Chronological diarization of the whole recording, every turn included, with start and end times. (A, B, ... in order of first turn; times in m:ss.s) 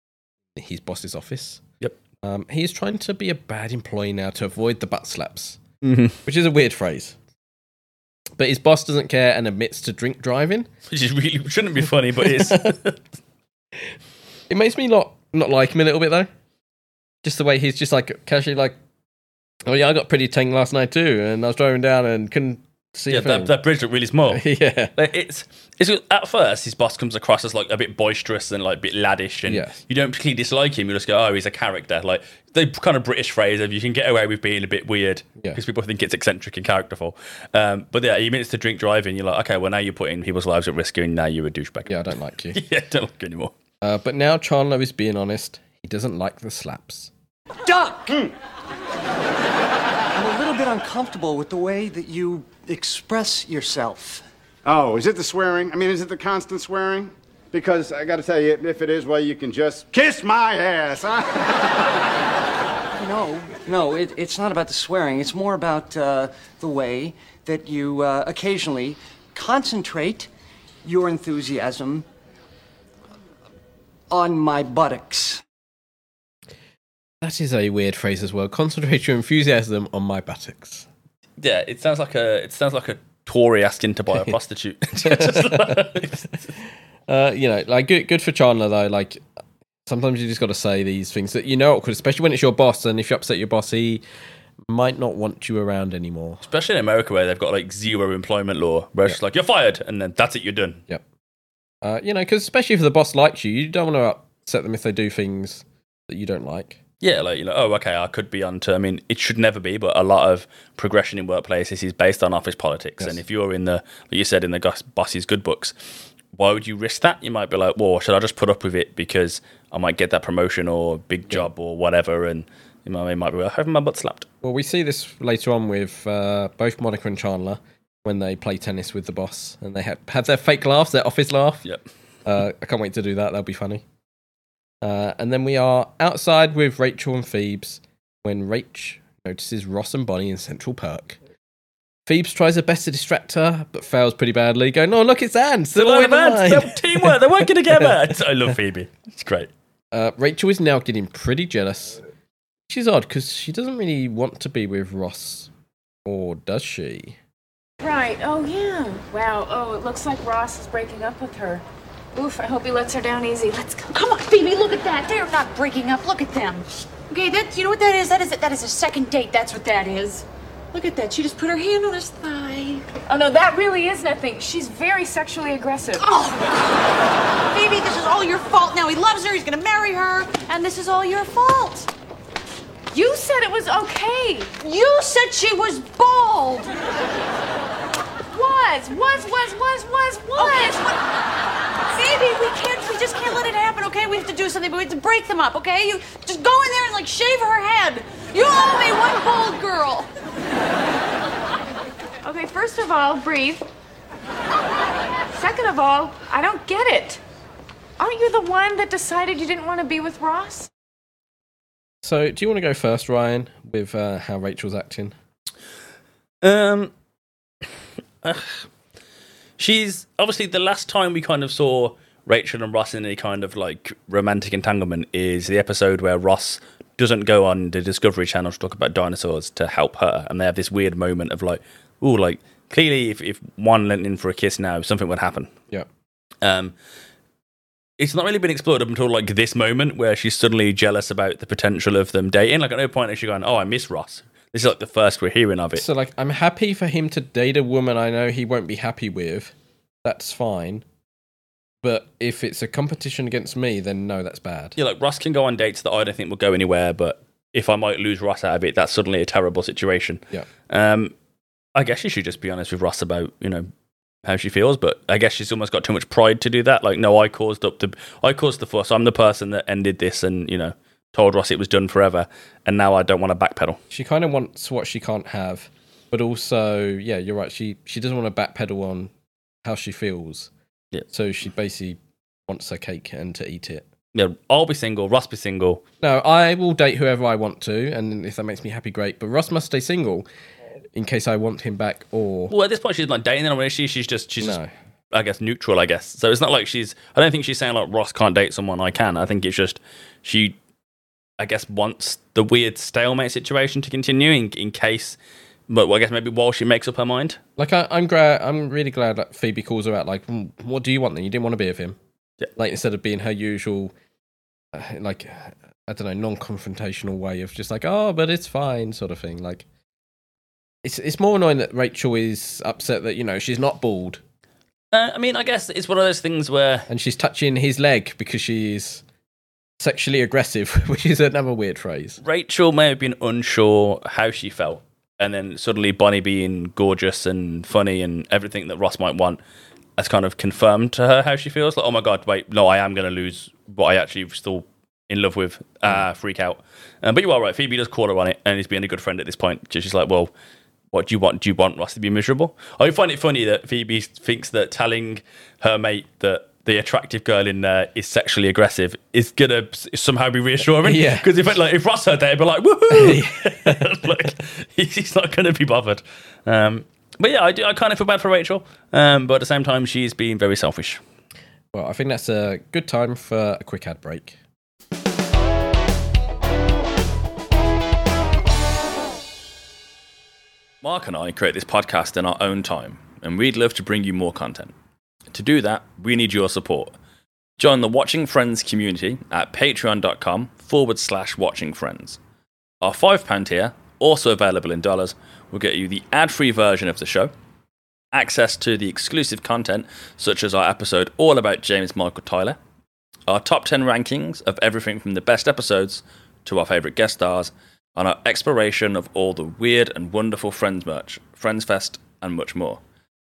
0:00.6-0:01.6 A
0:02.2-0:05.6 A
0:05.8-0:06.2 B
0:06.2-0:07.2 A
0:08.4-0:10.7 A
0:10.9-0:13.0 B
0:12.2-0:12.7 A
0:14.5-0:16.3 A
0:17.2-0:18.8 A
0:19.6-0:23.5 A
0:23.1-0:43.6 B
0:24.3-0:24.9 A
0:29.5-0:29.8 A
0:41.9-0:42.6 A
0:43.8-0:47.1 A
0:47.7-0:48.3 C
0:50.1-0:54.2 C
0:54.6-1:01.8 D
1:03.0-1:10.3 C
1:10.8-1:12.1 C
1:14.1-1:15.4 C
1:17.2-1:20.9 A
1:21.4-1:26.5 B
1:25.0-1:25.9 A
1:27.1-1:29.2 A
1:29.9-1:34.0 A
1:34.7-1:36.4 A
1:36.4-1:40.8 B
1:41.8-1:46.8 A
1:47.0-1:55.8 B
1:56.3-2:04.3 B
2:04.4-2:11.6 A
2:12.3-2:13.8 A
2:14.8-2:21.2 A
2:22.1-2:27.9 A
2:25.8-2:29.5 B
2:29.9-2:32.0 A
2:32.7-2:35.5 A
2:36.0-2:37.2 A
2:37.8-2:43.9 E
2:43.9-2:52.8 F
2:53.1-2:56.0 E
2:56.0-2:56.6 F
2:57.5-3:01.9 F
3:02.9-3:04.6 E
3:04.6-3:06.8 F
3:08.3-3:10.8 E
3:10.3-3:11.0 F
3:11.9-3:20.1 F
3:22.2-3:23.7 E
3:25.3-3:27.2 E
3:28.0-3:30.7 E
3:32.0-3:35.2 A
3:36.4-3:36.9 B
3:38.2-3:38.7 B
3:39.6-3:55.5 B
3:56.4-3:56.8 B
3:58.0-4:05.8 B
4:05.8-4:10.8 A
4:11.8-4:14.8 A
4:14.8-4:21.2 B
4:21.8-4:23.7 B
4:24.2-4:33.8 B
4:33.9-4:39.1 A
4:39.6-4:40.5 A
4:41.1-4:43.9 A
4:44.1-4:45.8 B
4:46.0-4:50.3 A
4:51.0-4:52.5 A
4:52.5-4:54.6 B
4:54.4-4:54.7 A
4:55.1-5:00.6 B
5:01.4-5:05.2 B
5:05.7-5:07.4 B
5:07.6-5:12.0 A
5:12.6-5:13.9 A
5:14.7-5:19.6 A
5:20.8-5:24.2 A
5:24.9-5:26.9 B
5:26.9-5:29.0 A
5:29.8-5:32.2 A
5:32.2-5:39.4 B
5:40.0-5:50.3 B
5:50.9-6:11.0 B
6:00.8-6:01.3 A
6:02.9-6:03.9 A
6:11.7-6:14.4 A
6:20.8-6:24.7 B
6:25.3-6:27.0 B
6:27.6-6:32.2 B
6:32.8-6:37.3 B
6:38.1-6:42.6 B
6:43.3-6:52.8 B